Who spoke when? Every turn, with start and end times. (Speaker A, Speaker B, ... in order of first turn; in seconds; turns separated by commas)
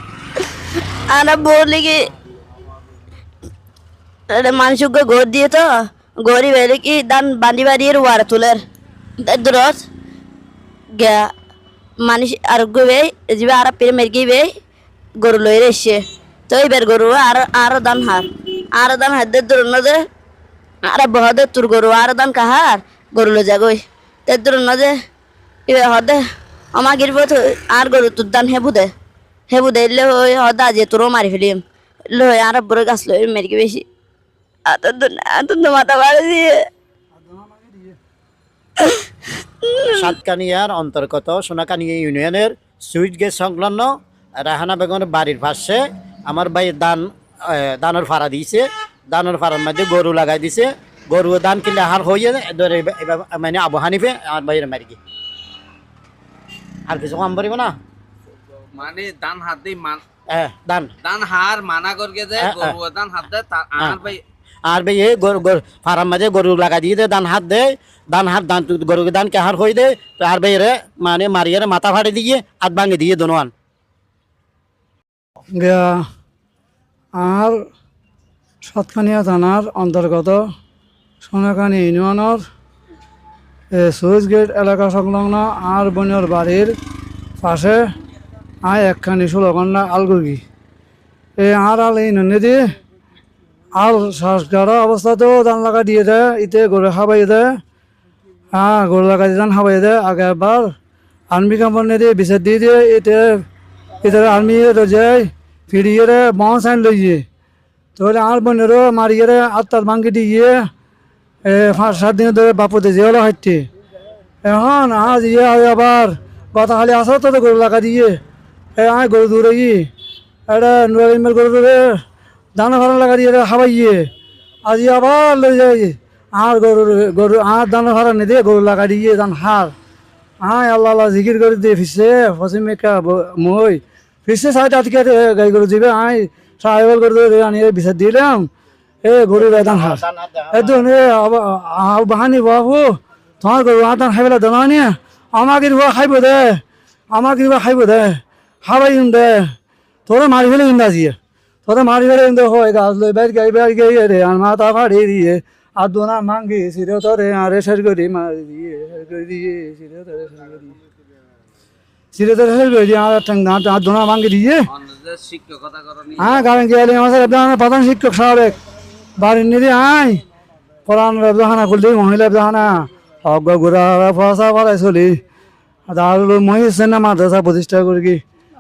Speaker A: 1.1-2.1, Speaker A: 4.3-5.7, Speaker A: 6.2-8.6, Speaker A: 9.2-9.8, Speaker A: 10.9-11.3, Speaker A: 12.0-14.5, Speaker A: 15.2-20.0, Speaker A: 20.9-24.9, Speaker A: 25.7-26.2, Speaker A: 26.8-28.9, Speaker A: 29.5-33.9, Speaker A: 34.7-36.6, Speaker B: 37.2-38.0, Speaker A: 39.6-39.9, Speaker C: 39.8-55.0, Speaker C: 56.9-57.8, Speaker D: 58.7-60.0, Speaker C: 60.3-60.9, Speaker D: 61.0-64.2, Speaker C: 62.4-62.8, Speaker C: 64.7-73.5, Speaker B: 75.5-76.0, Speaker B: 77.2-77.7, Speaker B: 78.6-80.4, Speaker B: 81.2-82.5, Speaker B: 83.7-86.8, Speaker B: 87.4-87.9, Speaker B: 88.6-90.4, Speaker B: 91.4-92.7, Speaker B: 93.8-97.6, Speaker B: 98.5-100.7, Speaker B: 101.3-103.5, Speaker B: 104.0-107.2, Speaker B: 108.0-110.7, Speaker B: 111.4-113.7, Speaker B: 114.4-118.2, Speaker B: 118.8-119.9, Speaker B: 120.5-122.0, Speaker B: 122.5-124.1, Speaker B: 124.6-129.8, Speaker B: 130.4-138.5, Speaker B: 139.0-149.5, Speaker C: 139.3-140.9, Speaker B: 150.1-160.7, Speaker B: 162.1-164.7, Speaker D: 164.7-166.5, Speaker B: 166.2-168.6, Speaker B: 169.2-170.2, Speaker B: 170.9-175.2, Speaker B: 175.9-178.2